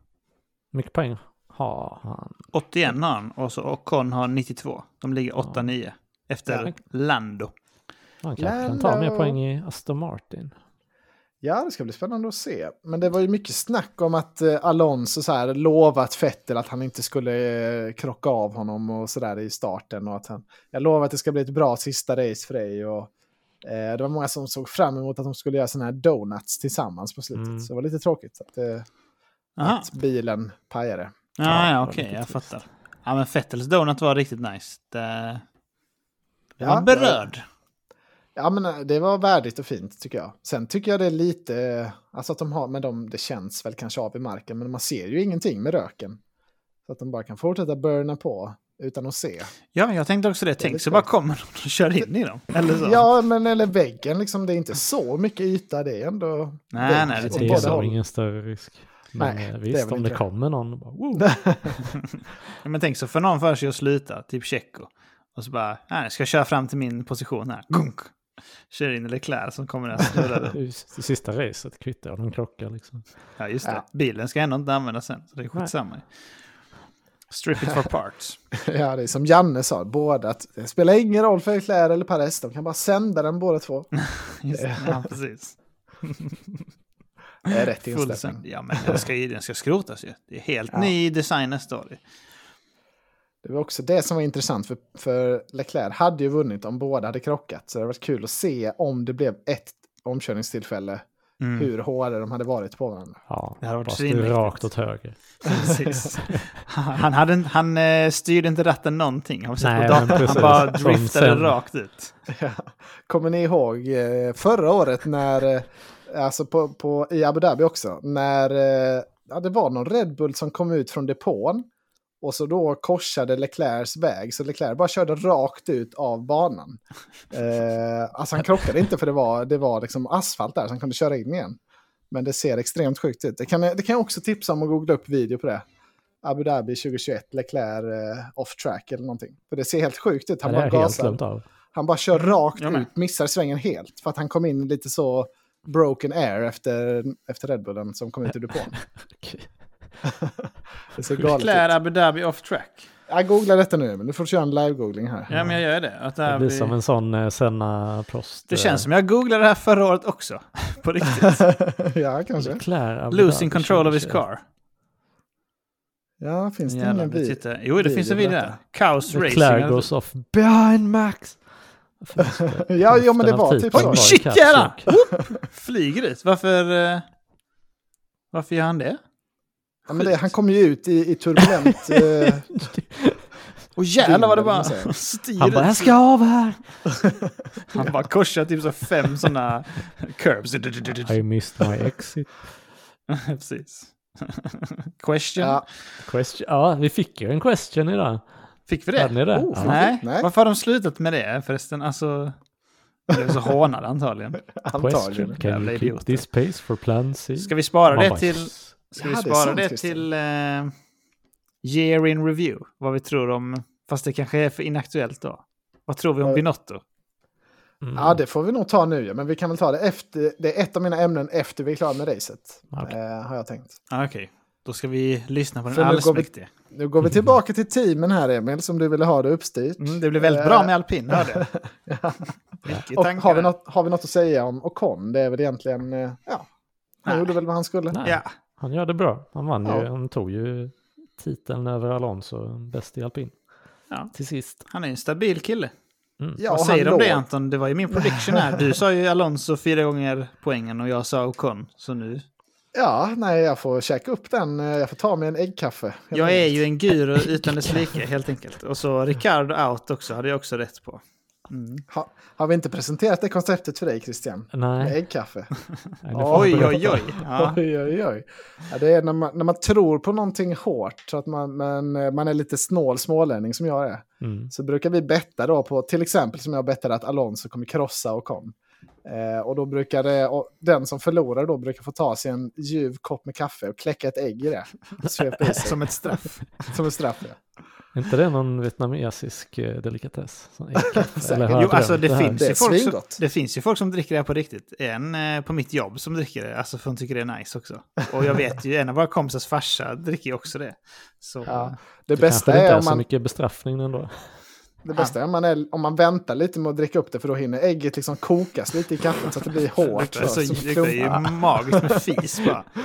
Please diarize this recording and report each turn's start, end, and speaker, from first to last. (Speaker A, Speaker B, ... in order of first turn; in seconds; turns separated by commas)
Speaker A: 0.7-2.5, Speaker B: 2.5-7.5, Speaker A: 8.2-10.5, Speaker C: 8.4-9.4, Speaker C: 11.4-23.1, Speaker C: 23.6-28.9, Speaker A: 27.4-27.7, Speaker B: 29.6-29.9, Speaker C: 29.6-31.2, Speaker B: 31.4-35.4, Speaker A: 31.4-32.4, Speaker B: 36.6-37.4, Speaker C: 36.6-37.2, Speaker C: 38.4-46.2, Speaker C: 46.9-49.5, Speaker B: 49.8-53.0, Speaker C: 50.6-51.1, Speaker C: 52.8-58.0, Speaker B: 56.7-57.8, Speaker A: 57.1-61.3, Speaker C: 59.2-60.2, Speaker C: 61.2-61.8, Speaker B: 62.6-68.2, Speaker B: 68.7-70.6, Speaker A: 70.5-73.1, Speaker B: 73.4-76.1, Speaker B: 77.3-78.4, Speaker C: 78.5-83.9, Speaker B: 84.0-86.6, Speaker C: 84.5-85.0, Speaker C: 87.5-89.0, Speaker B: 87.5-92.0, Speaker C: 93.4-101.0, Speaker B: 101.4-101.7, Speaker C: 101.6-103.2, Speaker A: 103.3-105.2, Speaker B: 103.6-104.7, Speaker B: 105.4-112.1, Speaker C: 105.5-106.1, Speaker A: 109.6-111.5, Speaker C: 110.3-110.5, Speaker C: 112.3-121.7, Speaker C: 122.2-126.8, Speaker C: 127.3-131.6, Speaker C: 132.1-135.6, Speaker C: 136.2-141.2, Speaker A: 140.4-141.4, Speaker C: 141.7-148.8, Speaker B: 142.6-142.9, Speaker A: 148.8-149.5, Speaker C: 150.1-151.7, Speaker B: 151.3-152.9, Speaker C: 153.1-155.3, Speaker B: 155.3-156.8, Speaker A: 155.3-155.6, Speaker A: 156.2-158.9, Speaker B: 158.5-161.6, Speaker C: 161.2-162.6, Speaker A: 162.4-164.2, Speaker B: 163.1-164.4, Speaker C: 166.2-168.6, Speaker B: 166.7-169.9, Speaker A: 169.1-171.4, Speaker A: 172.0-174.9, Speaker C: 172.3-174.2, Speaker B: 173.7-177.1, Speaker B: 178.3-179.0, Speaker C: 179.9-182.6, Speaker A: 181.8-183.2, Speaker B: 183.8-185.9, Speaker C: 184.0-184.9, Speaker A: 185.4-186.8, Speaker B: 187.7-191.7, Speaker A: 191.1-192.3, Speaker B: 193.1-195.7, Speaker C: 195.4-195.6, Speaker A: 196.0-198.2, Speaker B: 198.7-202.4, Speaker A: 198.9-199.8, Speaker C: 199.3-200.3, Speaker B: 203.1-204.4, Speaker C: 204.5-205.4, Speaker A: 204.8-208.7, Speaker B: 205.4-206.2, Speaker B: 207.4-210.7, Speaker C: 209.0-210.1, Speaker B: 211.6-216.8, Speaker A: 217.8-218.2, Speaker C: 217.9-223.8, Speaker B: 223.9-226.5, Speaker C: 225.7-232.3, Speaker B: 229.8-231.5, Speaker B: 232.6-233.5, Speaker C: 232.9-236.5, Speaker C: 237.0-238.0, Speaker B: 237.1-237.3, Speaker A: 237.9-243.4, Speaker B: 243.9-245.7, Speaker A: 244.1-244.6, Speaker C: 246.4-247.2, Speaker B: 246.5-252.2, Speaker C: 247.9-248.7, Speaker C: 252.7-256.6, Speaker B: 256.1-261.8, Speaker C: 261.9-265.5, Speaker A: 264.5-265.0, Speaker A: 266.0-267.1, Speaker C: 266.1-287.4, Speaker B: 266.3-267.6, Speaker A: 274.2-274.5, Speaker B: 285.5-286.7, Speaker A: 287.9-292.5, Speaker C: 290.9-291.8, Speaker B: 291.5-301.8, Speaker C: 292.3-293.2, Speaker C: 301.4-303.1, Speaker A: 302.1-304.4, Speaker C: 304.8-312.5, Speaker B: 309.8-312.7